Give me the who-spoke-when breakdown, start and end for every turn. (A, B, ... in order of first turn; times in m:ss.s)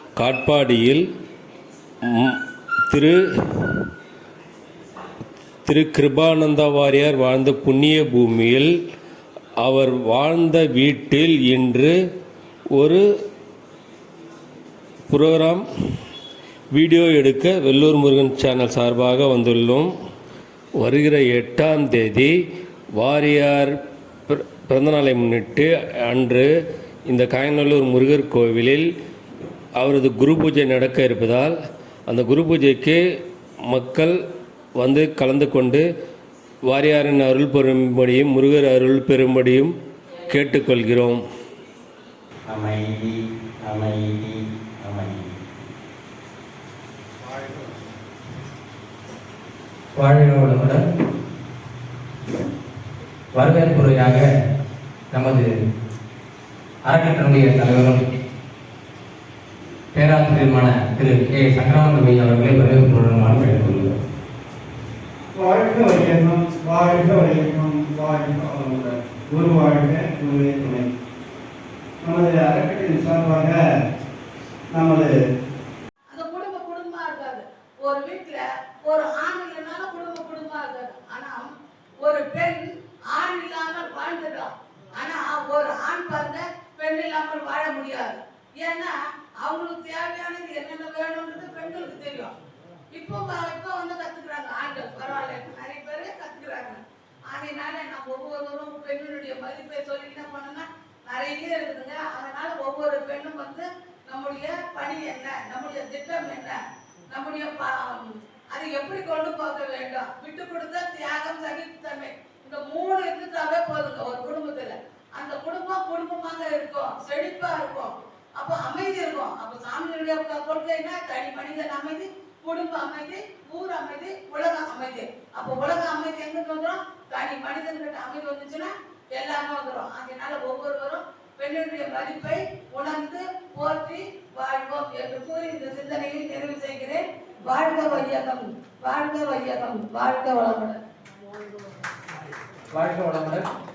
0:00.2-0:01.0 A
0:02.9-0:03.2 A
0:05.6-0:08.7 A
0:09.6-0:11.9 A
0:12.7-0:13.0 A
0:15.1-0:15.6 A
0:16.7-0:19.9 A
0:20.8-0:22.3 A
0:23.0-0:23.7 A
0:24.3-0:26.5 A
0:27.1-0:28.8 A
0:29.8-0:31.6 A
0:32.1-0:33.0 A
0:33.7-0:34.1 A
0:34.8-0:35.8 A
0:36.7-0:39.7 A
0:40.3-0:41.2 A
0:42.5-0:45.4 B
0:50.0-0:50.8 C
0:53.3-0:54.3 C
0:55.1-0:55.6 C
0:56.8-0:58.0 C
0:59.9-1:03.9 C
1:05.4-1:10.8 D
1:12.0-1:13.5 D
1:14.8-1:15.0 D
1:16.1-1:21.5 E
1:22.0-1:32.3 E
1:32.9-1:36.8 E
1:37.3-1:46.6 E
1:47.1-1:48.0 E
1:48.5-2:20.8 E
2:22.7-2:23.5 C